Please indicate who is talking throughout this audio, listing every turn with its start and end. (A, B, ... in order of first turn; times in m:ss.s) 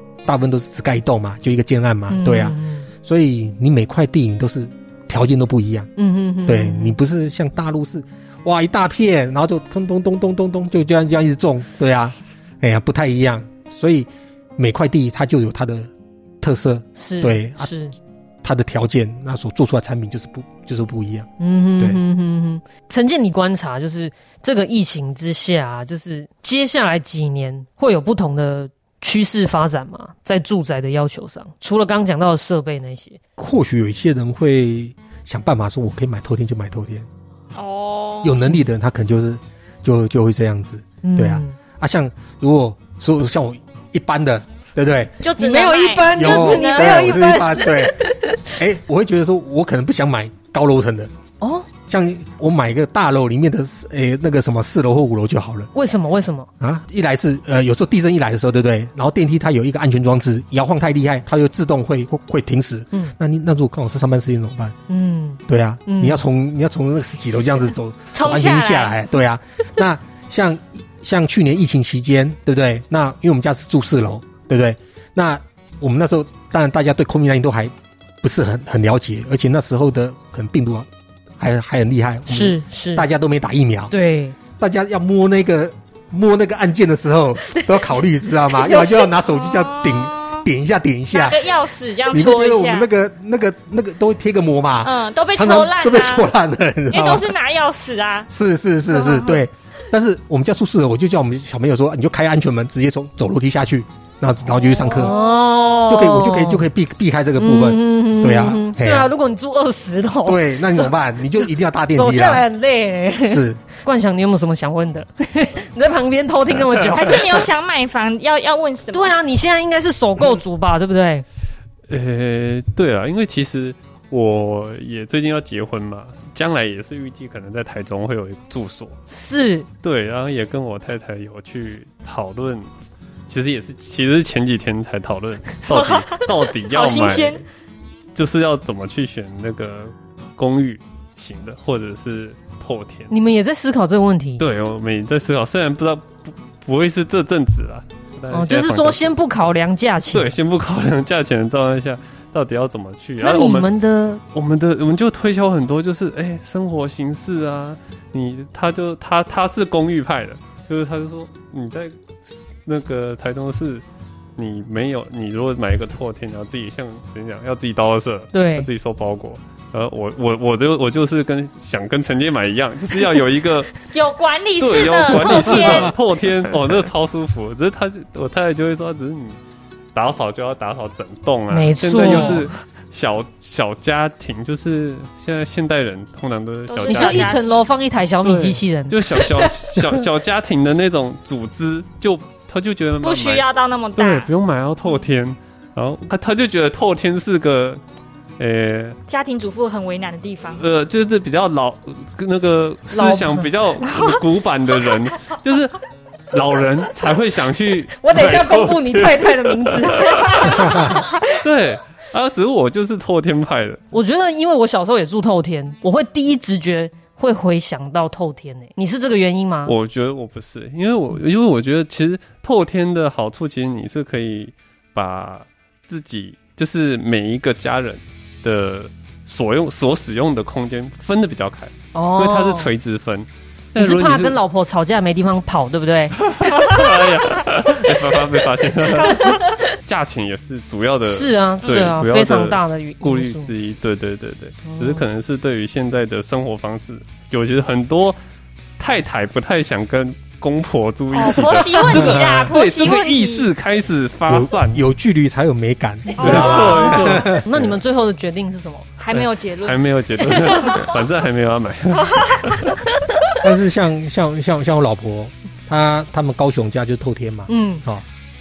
0:00.2-0:05.9 A
0:02.1-0:02.9 B
0:06.0-0:07.0 B
0:06.4-0:17.7 A
0:17.0-0:18.0 B
0:18.4-0:22.0 A
0:21.4-0:33.2 B
0:33.4-0:37.1 A
0:37.5-0:38.4 C
0:38.2-0:45.2 A
0:41.0-0:41.6 B
0:45.2-0:47.3 C
0:45.4-0:48.5 B
0:46.1-0:51.1 A
0:51.4-0:51.7 B
0:51.9-0:55.7 A
0:55.7-0:56.5 B
0:56.6-1:04.8 A
1:04.9-1:06.2 B
1:05.5-1:20.9 A
1:08.1-1:09.0 C
1:21.4-1:23.9 A
1:22.3-1:23.1 B
1:23.9-1:24.4 B
1:24.6-1:31.5 A
1:29.2-1:30.4 C
1:31.1-1:32.9 C
1:32.1-1:37.3 A
1:34.8-1:36.3 C
1:36.9-1:38.3 C
1:38.3-1:45.2 A
1:38.9-1:39.4 C
1:44.7-1:45.4 C
1:45.0-1:46.7 B
1:45.9-1:49.1 A
1:47.4-1:57.5 B
1:50.2-1:52.5 A
1:53.2-1:53.6 A
1:56.8-1:59.1 C
1:58.9-2:01.2 B
2:01.9-2:09.0 D
2:09.1-2:09.7 B
2:09.8-2:12.7 D
2:13.3-2:17.5 D
2:15.7-2:17.4 C
2:18.2-2:23.1 D
2:23.1-2:24.4 B
2:24.4-2:29.2 D
2:28.3-2:30.3 B
2:30.1-2:33.7 D
2:33.2-2:34.2 B
2:34.3-2:43.8 D
2:44.4-2:53.9 D
2:48.3-2:48.7 B
2:53.9-2:55.9 C
2:54.6-2:59.4 D
2:59.9-3:07.4 D
3:01.5-3:02.5 B
3:06.7-3:07.5 C
3:06.9-3:10.0 B
3:08.2-3:17.8 D
3:13.0-3:14.3 C
3:18.4-3:19.0 D
3:19.1-3:20.7 C
3:20.5-3:25.8 D
3:22.9-3:23.5 B
3:26.3-3:33.8 D
3:28.0-3:31.2 B
3:30.6-3:30.9 A
3:33.9-3:39.7 B
3:39.7-3:54.4 D
3:51.9-3:52.7 B
3:53.8-3:56.7 B
3:56.2-4:08.2 D
3:59.0-3:59.5 B
4:01.0-4:03.5 B
4:01.6-4:02.0 C
4:04.6-4:05.0 B
4:08.8-4:14.8 D
4:11.1-4:13.5 C
4:11.9-4:12.3 A
4:14.3-4:17.4 A
4:16.2-4:17.6 D
4:16.2-4:18.9 B
4:19.0-4:20.9 C
4:19.1-4:22.8 D
4:22.1-4:22.5 C
4:23.4-4:28.1 A
4:27.5-4:27.8 B